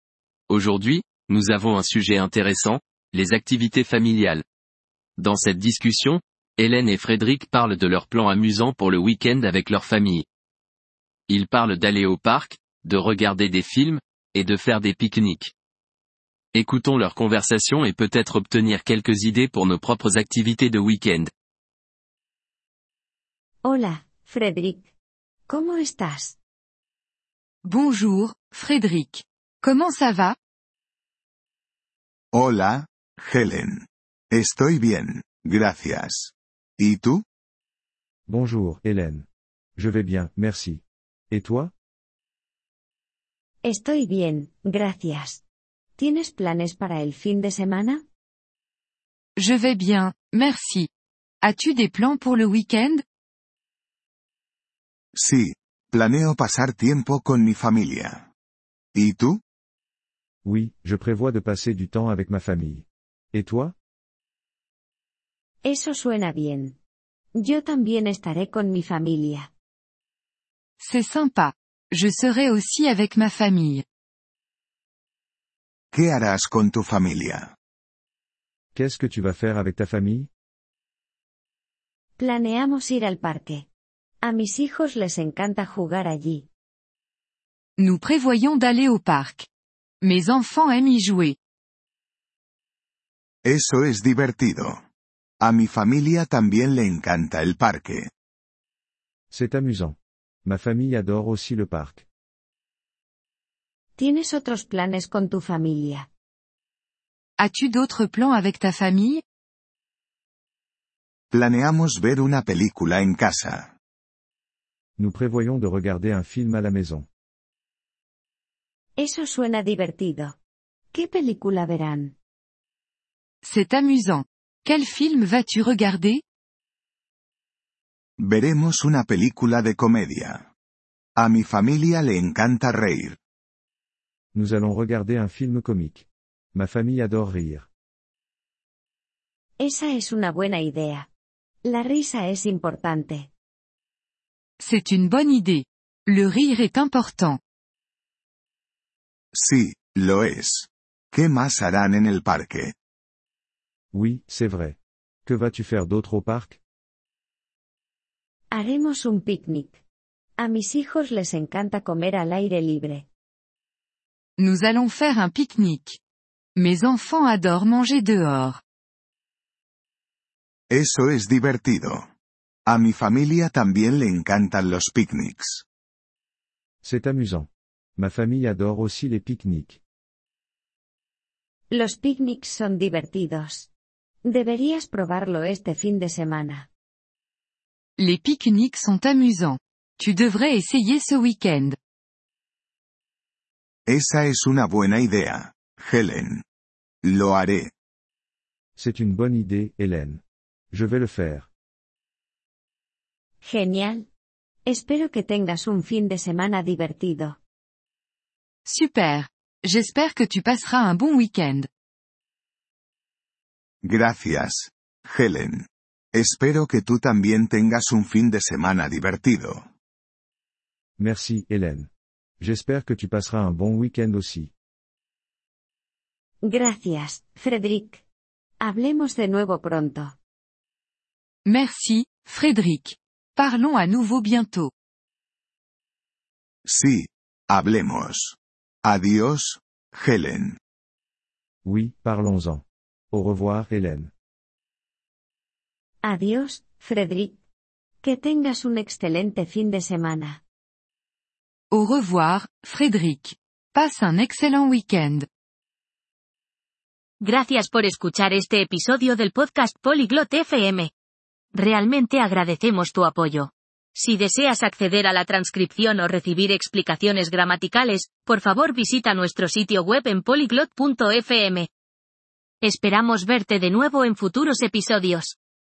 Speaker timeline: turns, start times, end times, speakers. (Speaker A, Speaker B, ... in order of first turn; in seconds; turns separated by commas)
Speaker A: 0.5-4.4, Speaker A: 5.2-10.2, Speaker A: 11.3-15.5, Speaker A: 16.5-21.3, Speaker B: 23.6-24.9, Speaker B: 25.5-26.4, Speaker C: 27.6-30.4, Speaker D: 32.3-37.2, Speaker E: 38.3-39.2, Speaker E: 39.8-41.7, Speaker B: 43.6-45.4, Speaker B: 46.0-48.0, Speaker C: 49.4-50.9, Speaker C: 51.4-53.0, Speaker D: 55.1-58.3, Speaker D: 58.9-59.4, Speaker E: 60.4-63.7, Speaker B: 65.6-66.8, Speaker B: 67.4-69.5, Speaker C: 70.8-73.8, Speaker D: 75.9-77.5, Speaker E: 78.7-80.3, Speaker B: 82.2-83.6, Speaker B: 84.2-86.5, Speaker C: 87.8-89.5, Speaker C: 90.0-91.3, Speaker D: 93.4-94.8, Speaker D: 95.4-98.1, Speaker E: 99.3-102.0, Speaker B: 104.0-106.1, Speaker C: 107.4-109.2, Speaker D: 111.3-113.7, Speaker E: 115.0-117.1, Speaker B: 119.0-120.3, Speaker B: 120.9-122.1, Speaker C: 123.4-126.2, Speaker D: 128.2-130.5, Speaker D: 131.2-133.2, Speaker E: 134.3-137.7, Speaker B: 139.6-141.1, Speaker B: 141.7-143.3, Speaker C: 144.6-147.4, Speaker D: 149.3-152.7, Speaker E: 153.9-156.6, Speaker B: 158.5-159.8, Speaker B: 160.4-163.1, Speaker C: 164.4-166.0, Speaker C: 166.6-168.6, Speaker D: 170.7-172.1, Speaker D: 172.7-175.6, Speaker E: 176.8-179.8, Speaker B: 181.7-183.7, Speaker B: 184.2-186.7, Speaker C: 188.0-191.8, Speaker D: 193.9-196.4, Speaker D: 197.0-197.7, Speaker E: 198.8-201.5, Speaker B: 203.4-204.1, Speaker B: 204.7-207.4, Speaker C: 208.6-211.7, Speaker D: 213.8-219.7, Speaker E: 221.0-224.5, Speaker B: 226.4-228.0, Speaker B: 228.6-230.2, Speaker C: 231.4-234.7, Speaker D: 236.7-240.6, Speaker E: 241.6-244.1, Speaker B: 246.0-247.4, Speaker B: 248.0-250.4, Speaker C: 251.7-255.3, Speaker F: 257.2-260.9, Speaker F: 261.5-271.7, Speaker F: 272.6-275.4